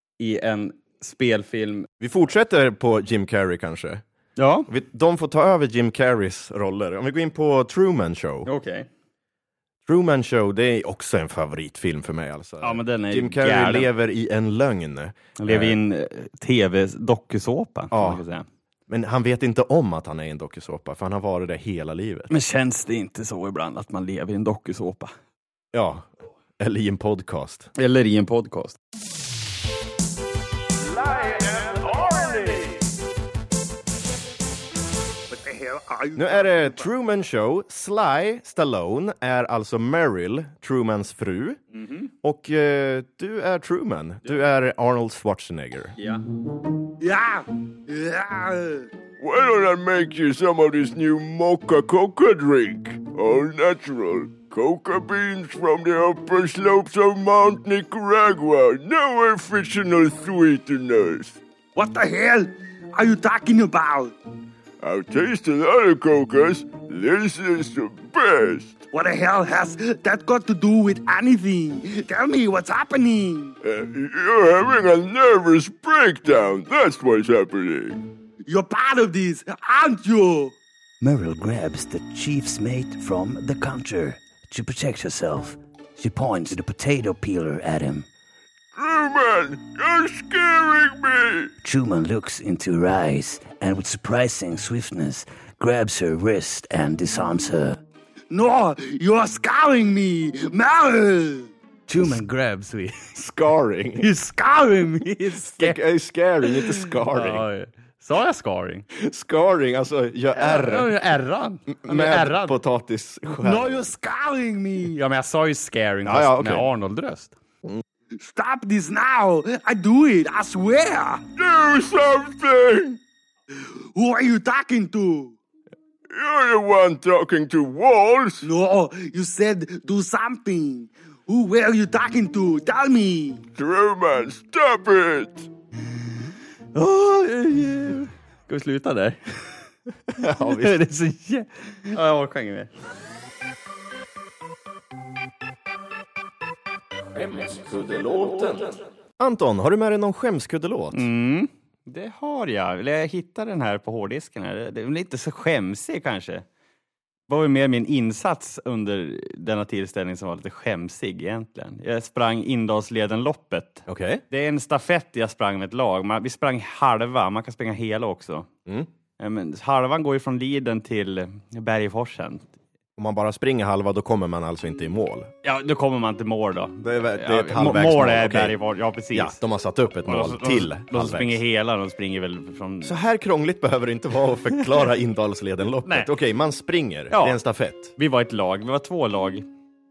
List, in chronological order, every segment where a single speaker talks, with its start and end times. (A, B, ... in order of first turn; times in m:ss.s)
0:00.2-0:01.9 A
0:02.0-0:04.0 B
0:04.4-0:04.7 A
0:04.7-0:08.5 B
0:08.4-0:08.9 A
0:09.9-0:15.8 B
0:12.6-0:13.9 A
0:15.4-0:18.5 A
0:17.9-0:18.2 B
0:18.9-0:22.3 B
0:22.3-0:25.1 A
0:25.7-0:27.7 B
0:27.8-0:28.8 A
0:30.9-0:32.5 C
0:35.3-0:36.9 D
0:36.2-0:41.6 B
0:41.7-0:42.1 A
0:42.2-0:46.0 B
0:46.0-0:46.2 A
0:47.0-0:48.9 D
0:49.2-1:01.4 C
1:01.8-1:04.1 D
1:04.8-1:08.8 C
1:08.9-1:13.6 D
1:13.6-1:18.0 C
1:18.5-1:20.5 D
1:21.0-1:28.0 E
1:28.8-1:31.5 C
1:31.6-1:37.8 E
1:38.3-1:41.5 D
1:41.9-1:42.8 E
1:43.1-1:44.1 B
1:44.0-1:45.1 D
1:45.0-1:45.8 A
1:45.6-1:47.5 B
1:46.5-1:48.9 A
1:48.9-1:51.0 B
1:50.4-1:52.6 A
1:51.7-1:53.8 B
1:53.4-1:54.9 D
1:54.8-1:57.4 A
1:56.0-1:56.7 B
1:58.2-2:01.2 D
2:01.4-2:03.0 C
2:04.0-2:05.4 D
2:06.1-2:08.5 C
2:08.4-2:13.5 D
2:13.6-2:15.5 C
2:16.7-2:19.5 A
2:20.1-2:20.8 B
2:20.4-2:22.7 A
2:27.2-2:31.1 B
2:30.9-2:36.5 A
2:37.3-2:48.5 A
2:43.9-2:44.2 B
2:49.2-2:52.5 A
2:53.0-2:55.3 B
2:55.4-2:59.4 A
2:56.8-2:58.6 B
2:59.1-3:01.4 B
3:00.0-3:03.0 A
3:02.8-3:07.9 B
3:05.8-3:06.1 A
3:07.1-3:07.4 A
3:08.0-3:09.5 A